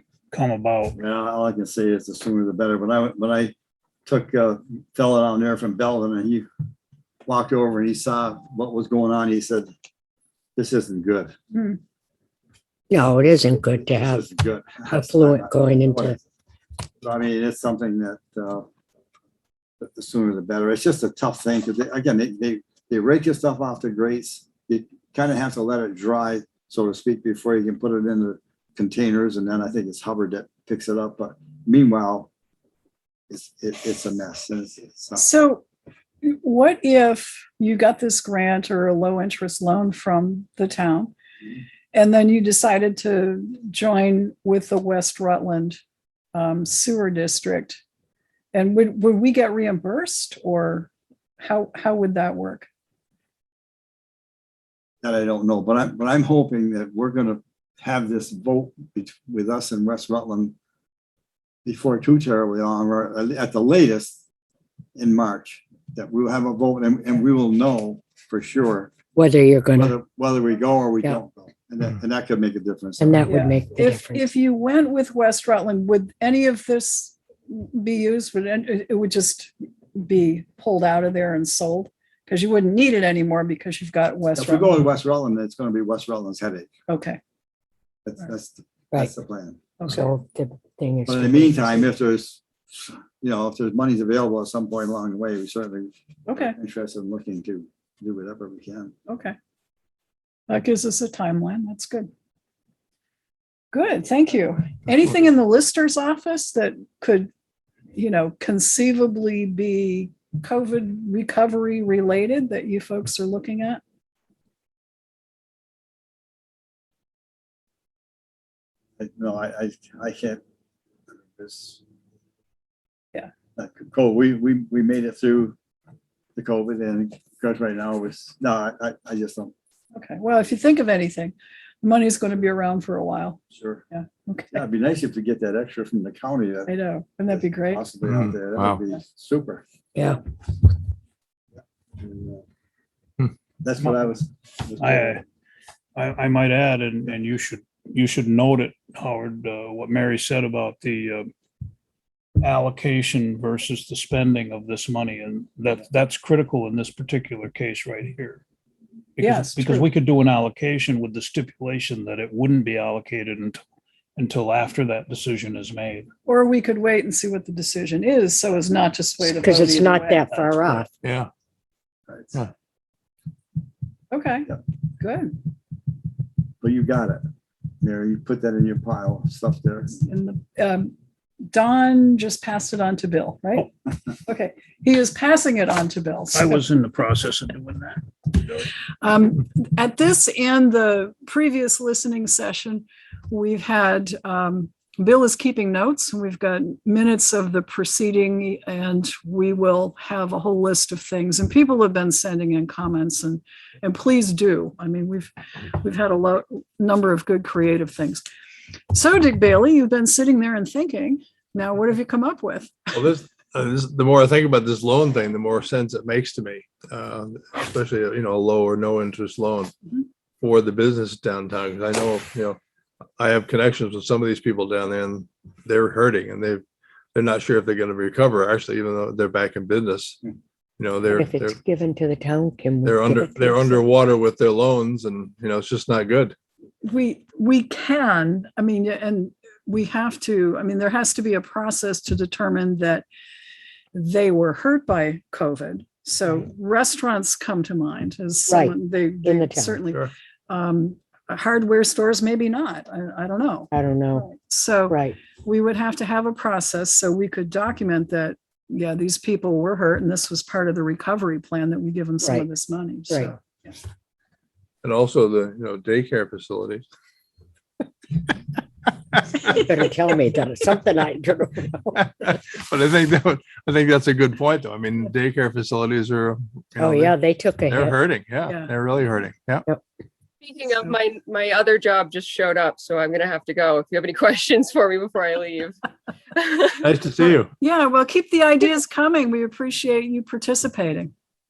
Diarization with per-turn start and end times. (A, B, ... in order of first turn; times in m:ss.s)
0:00.3-0:01.0 A
0:01.0-0:03.5 B
0:04.1-0:06.5 B
0:07.3-0:09.7 B
0:10.6-0:11.4 B
0:12.9-0:14.3 C
0:13.4-0:16.2 B
0:14.9-0:16.2 C
0:17.0-0:18.7 B
0:19.8-0:32.3 B
0:33.3-0:35.2 B
0:35.2-0:35.6 D
0:36.2-0:41.1 D
0:41.9-0:45.8 D
0:46.3-0:47.8 D
0:48.5-0:52.7 D
0:55.0-1:00.6 B
1:01.6-1:04.2 B
1:05.0-1:09.1 B
1:09.1-1:10.0 C
1:09.8-1:13.2 B
1:13.0-1:14.3 C
1:13.2-1:24.8 D
1:24.3-1:26.7 B
1:26.9-1:27.2 D
1:28.0-1:30.0 B
1:29.9-1:31.9 C
1:31.1-1:39.0 B
1:36.3-1:36.6 D
1:39.1-1:39.4 D
1:40.5-1:42.1 D
1:43.7-1:47.3 D
1:48.0-1:53.8 D
1:59.0-2:00.4 B
2:01.1-2:01.8 B
2:03.6-2:05.6 B
2:06.4-2:09.5 B
2:09.9-2:13.4 D
2:13.5-2:13.8 B
2:13.9-2:14.6 D
2:14.5-2:16.8 B
2:16.7-2:17.9 D
2:17.3-2:19.6 B
2:18.0-2:18.8 E
2:20.0-2:20.2 C
2:22.0-2:22.4 B
2:23.6-2:25.2 B
2:24.8-2:25.2 A
2:26.0-2:31.3 A
2:32.4-2:38.4 A
2:39.2-2:43.6 A
2:39.2-2:39.9 D
2:44.2-2:46.1 A
2:46.3-2:50.4 D
2:49.2-2:50.9 C
2:50.4-2:50.8 A
2:51.0-2:51.3 E
2:52.1-2:52.5 B
2:54.1-2:55.4 D
2:56.6-2:57.2 B
2:57.8-3:00.0 B
3:00.0-3:00.9 D
3:01.5-3:03.7 D
3:04.3-3:06.6 D
3:06.3-3:08.7 A
3:09.0-3:28.2 D
3:28.9-3:33.1 D
3:33.0-3:39.7 E
3:40.4-3:42.6 E
3:43.2-3:46.6 E
3:47.1-3:50.2 E
3:50.8-3:51.6 E
3:51.1-3:53.8 C
3:52.8-3:56.4 E
3:56.8-4:03.0 D
4:03.9-4:23.8 D
4:08.5-4:09.8 C
4:13.7-4:14.3 C
4:14.9-4:15.2 C
4:23.1-4:23.3 C
4:24.8-4:26.8 E
4:29.5-4:32.0 C
4:32.0-4:37.1 E
4:36.8-4:38.0 C
4:37.7-4:39.6 E
4:38.5-4:38.7 D
4:40.4-4:45.8 F
4:46.4-4:46.9 F
4:46.8-4:47.5 E
4:47.6-4:51.1 D